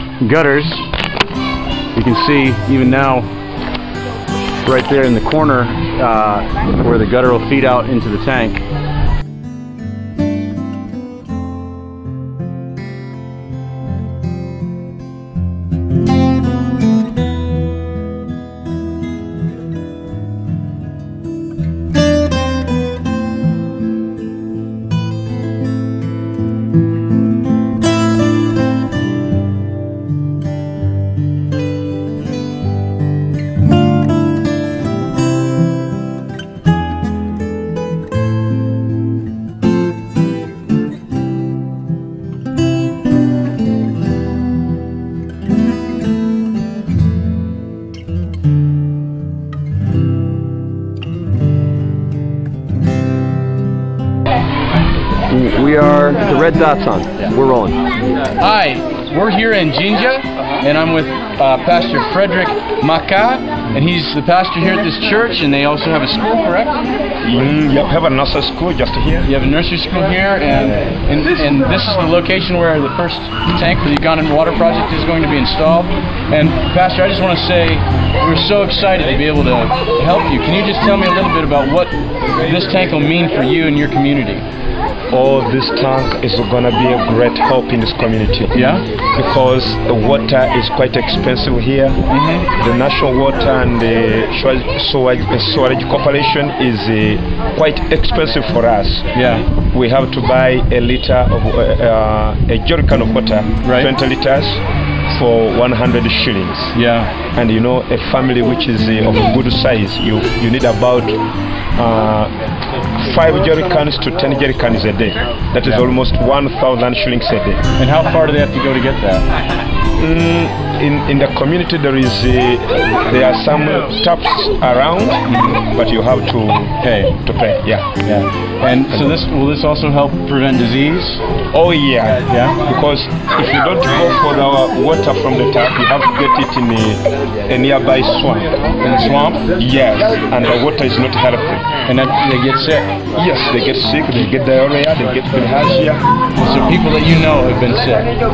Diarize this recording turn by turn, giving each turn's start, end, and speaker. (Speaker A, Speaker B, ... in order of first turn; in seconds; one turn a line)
Speaker A: 0.2-0.9
Speaker A: 1.9-3.3
Speaker A: 4.6-8.6
Speaker B: 55.3-57.8
Speaker A: 58.4-66.8
Speaker C: 67.2-69.3
Speaker A: 69.2-84.5
Speaker C: 85.1-88.5
Speaker A: 88.5-88.8
Speaker C: 89.1-92.0
Speaker A: 92.1-92.5
Speaker C: 92.5-106.8
Speaker A: 99.1-99.5
Speaker A: 103.6-103.9
Speaker A: 106.7-107.1
Speaker C: 107.3-111.2
Speaker C: 111.8-112.3
Speaker C: 113.0-117.6
Speaker A: 117.8-119.3
Speaker C: 120.0-127.9
Speaker A: 125.3-125.6
Speaker A: 126.8-127.2
Speaker A: 128.0-131.2
Speaker C: 131.5-138.5
Speaker A: 132.3-132.6
Speaker A: 138.8-139.5
Speaker C: 139.5-141.8
Speaker A: 141.8-142.9
Speaker C: 143.2-146.1
Speaker A: 146.4-148.1